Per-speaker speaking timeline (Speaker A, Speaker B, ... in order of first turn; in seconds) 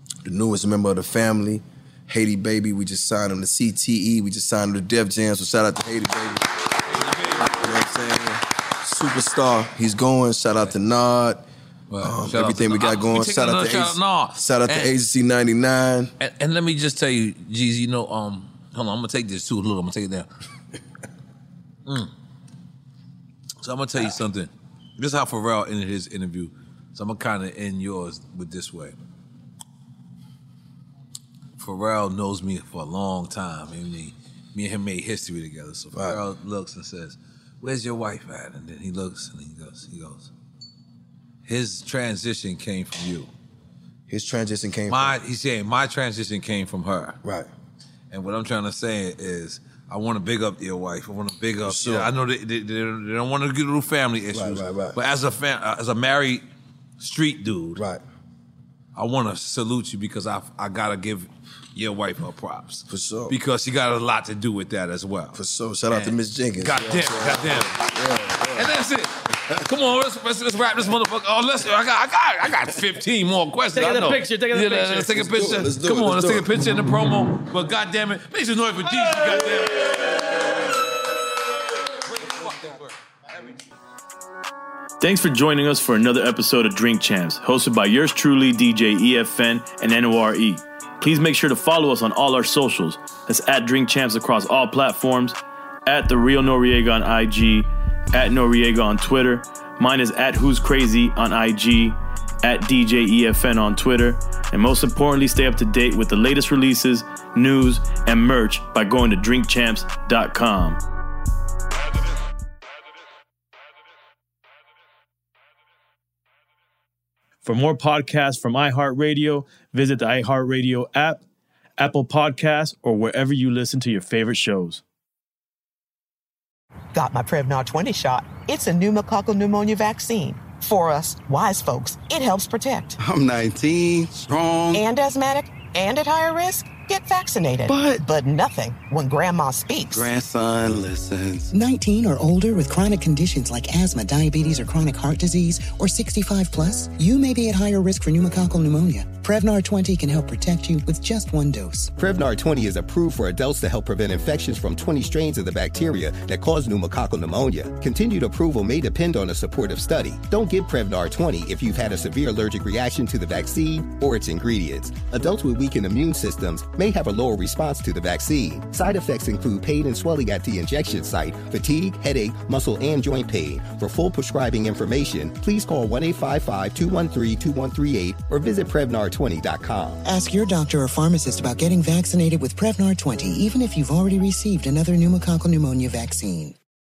Speaker A: 0.2-6.6, 7.5-11.4, 12.0-16.1, 35.9-36.2, 44.1-45.2, 47.2-47.5, 51.6-52.1, 54.3-55.0, 57.8-58.0, 62.9-63.4, 65.3-68.7, 75.1-76.5
Speaker B: 6.9-7.8, 11.9-14.9, 16.2-20.3, 21.9-22.1, 23.6-29.0, 31.6-40.3, 41.5-43.3, 44.9-47.2, 48.1-56.5, 57.0-57.8, 59.0-65.4, 65.9-67.9, 68.4-80.3, 82.1-83.0
Speaker C: 73.7-75.1, 85.0-110.8, 117.5-121.2, 121.8-124.8
Speaker D: 126.9-132.9, 134.7-140.1
Speaker E: 133.0-134.8, 137.7-138.0, 139.9-141.5
Speaker F: 141.5-151.9, 180.1-186.6
Speaker G: 152.0-180.0